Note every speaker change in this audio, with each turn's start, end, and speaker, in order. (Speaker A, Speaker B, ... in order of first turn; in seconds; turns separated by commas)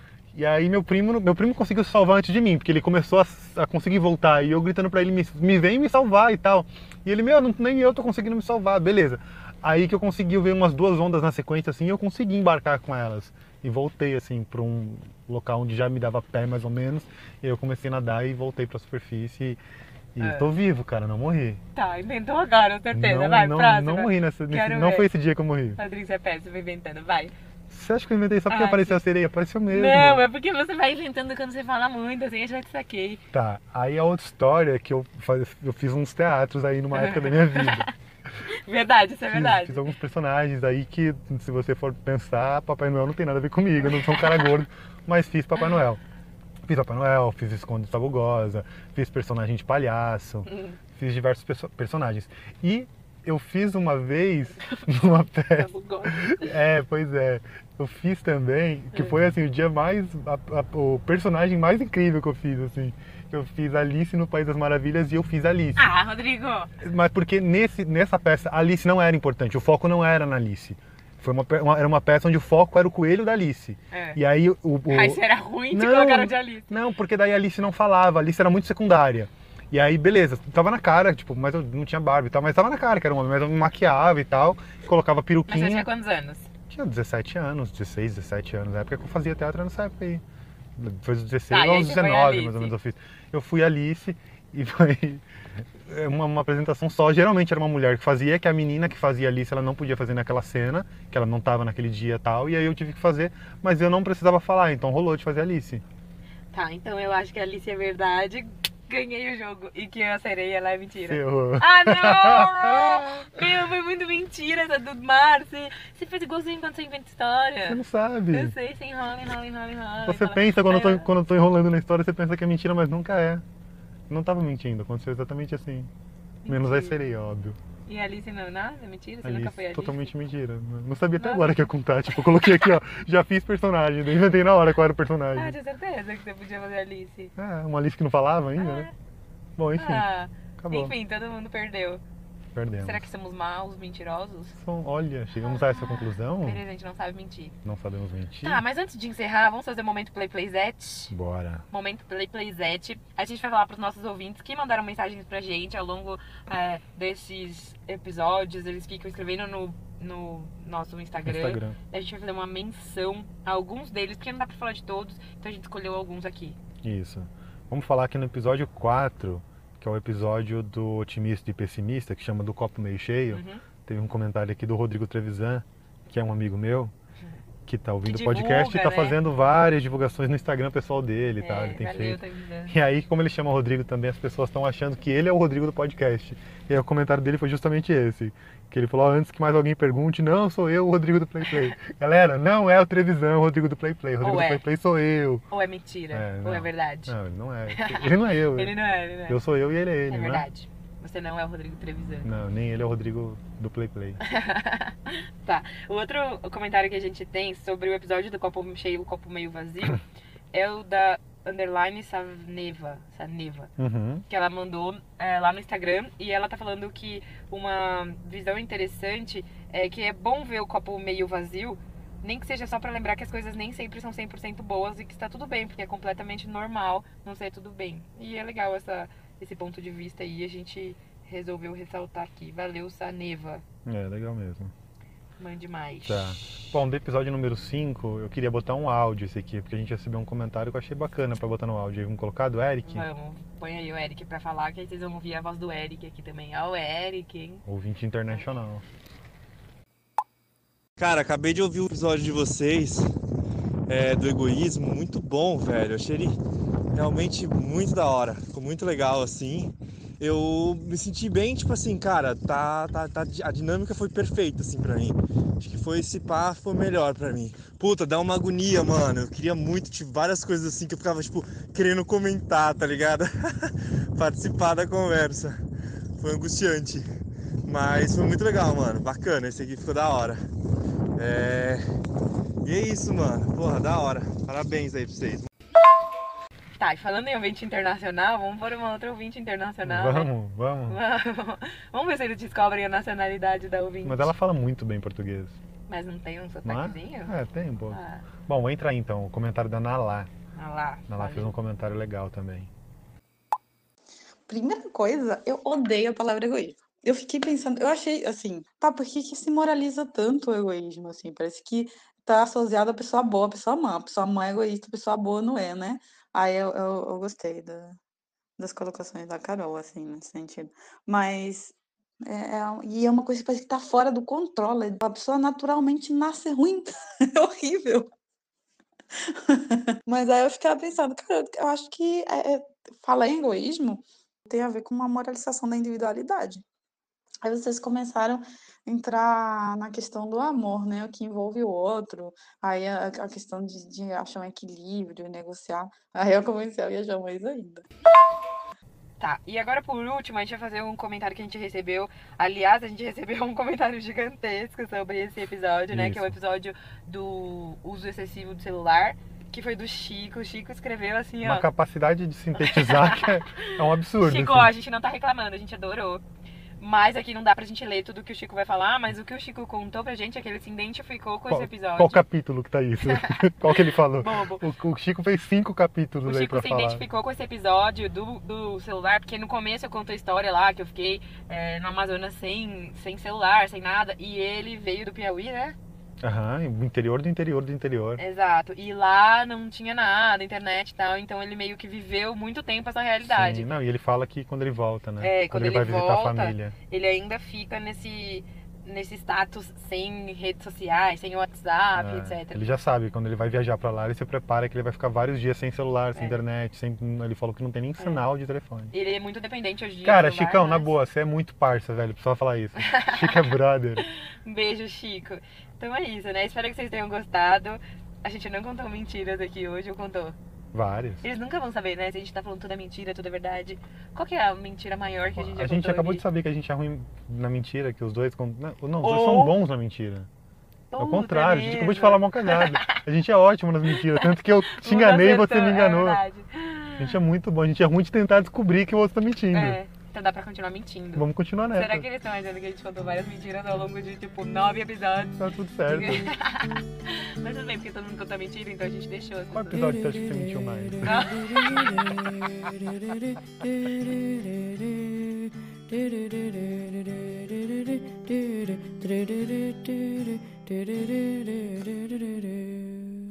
Speaker A: 0.3-19.6, Speaker A: 20.1-21.6, Speaker B: 20.2-20.5, Speaker B: 21.7-25.1, Speaker A: 22.9-25.8, Speaker B: 25.8-27.3, Speaker A: 27.7-30.2, Speaker B: 28.5-29.0, Speaker B: 29.7-33.2, Speaker A: 33.3-37.9, Speaker B: 36.9-37.9, Speaker B: 38.5-39.8, Speaker A: 39.3-46.0, Speaker B: 43.9-44.5, Speaker A: 46.6-65.9, Speaker B: 55.6-56.6, Speaker B: 65.8-66.7, Speaker A: 66.8-85.9, Speaker B: 73.9-74.2, Speaker B: 74.9-76.7, Speaker B: 85.5-86.5, Speaker A: 86.7-90.2, Speaker A: 90.8-95.2, Speaker B: 91.5-92.7, Speaker A: 95.9-105.8, Speaker B: 106.5-117.8, Speaker A: 111.0-113.5, Speaker A: 117.6-118.5, Speaker B: 118.3-121.1, Speaker A: 120.0-123.4, Speaker A: 124.1-125.9, Speaker B: 126.5-127.0, Speaker A: 126.5-127.6, Speaker B: 127.9-130.1, Speaker A: 129.2-135.6, Speaker B: 131.2-131.7, Speaker B: 132.3-132.7, Speaker B: 135.4-137.3, Speaker A: 137.4-138.9, Speaker B: 138.6-138.9, Speaker A: 139.6-140.1, Speaker B: 139.8-142.0, Speaker A: 140.6-140.9, Speaker A: 142.6-143.1, Speaker B: 142.8-144.6, Speaker A: 144.6-146.6, Speaker B: 145.4-147.6, Speaker A: 147.6-148.6, Speaker B: 148.4-151.1, Speaker A: 151.1-151.6, Speaker B: 151.7-166.6, Speaker A: 161.2-161.8, Speaker A: 166.8-176.9, Speaker B: 173.3-173.6, Speaker A: 177.7-195.4, Speaker B: 178.1-179.2, Speaker B: 181.4-182.8, Speaker B: 191.4-191.7, Speaker B: 194.2-194.6, Speaker B: 195.5-197.2, Speaker A: 196.1-198.7, Speaker B: 197.7-199.4, Speaker A: 199.3-200.5, Speaker B: 200.1-202.3, Speaker A: 202.2-204.2, Speaker B: 204.2-213.7, Speaker A: 213.8-214.2, Speaker B: 214.3-233.6, Speaker A: 233.9-234.7, Speaker B: 235.4-236.2, Speaker A: 236.1-243.1, Speaker B: 242.8-247.6, Speaker A: 247.7-248.8, Speaker C: 251.0-253.1, Speaker C: 253.9-256.4, Speaker C: 256.9-275.6, Speaker C: 276.2-277.1, Speaker C: 277.7-280.4, Speaker C: 281.2-281.8, Speaker C: 282.6-285.5, Speaker B: 286.8-290.3, Speaker A: 289.8-291.0, Speaker B: 290.9-294.3, Speaker A: 294.1-295.6, Speaker B: 295.9-297.4, Speaker A: 296.6-300.3, Speaker B: 297.9-298.2, Speaker B: 300.5-301.5, Speaker A: 301.1-302.7, Speaker D: 304.5-318.0, Speaker D: 318.6-328.1, Speaker D: 329.3-336.6, Speaker D: 337.4-347.9, Speaker B: 349.2-361.7, Speaker A: 355.9-356.4, Speaker A: 361.4-364.7, Speaker B: 362.6-366.2, Speaker B: 366.8-372.2, Speaker A: 371.5-377.0, Speaker B: 373.0-374.7, Speaker B: 376.2-385.8, Speaker A: 386.2-388.2, Speaker B: 388.2-393.7, Speaker A: 393.3-396.7, Speaker B: 395.2-402.7, Speaker A: 402.0-408.9, Speaker B: 406.1-406.4, Speaker B: 408.9-410.9, Speaker A: 410.1-414.1, Speaker B: 412.8-413.5, Speaker B: 414.1-420.4, Speaker A: 420.7-421.2, Speaker B: 421.2-426.2, Speaker A: 425.4-430.3, Speaker B: 429.0-429.5, Speaker B: 430.9-433.0, Speaker A: 431.0-436.2, Speaker B: 433.9-437.2, Speaker A: 437.0-439.8, Speaker B: 439.5-449.9, Speaker A: 441.2-442.1, Speaker A: 445.4-446.3, Speaker A: 449.5-451.4, Speaker B: 451.0-452.1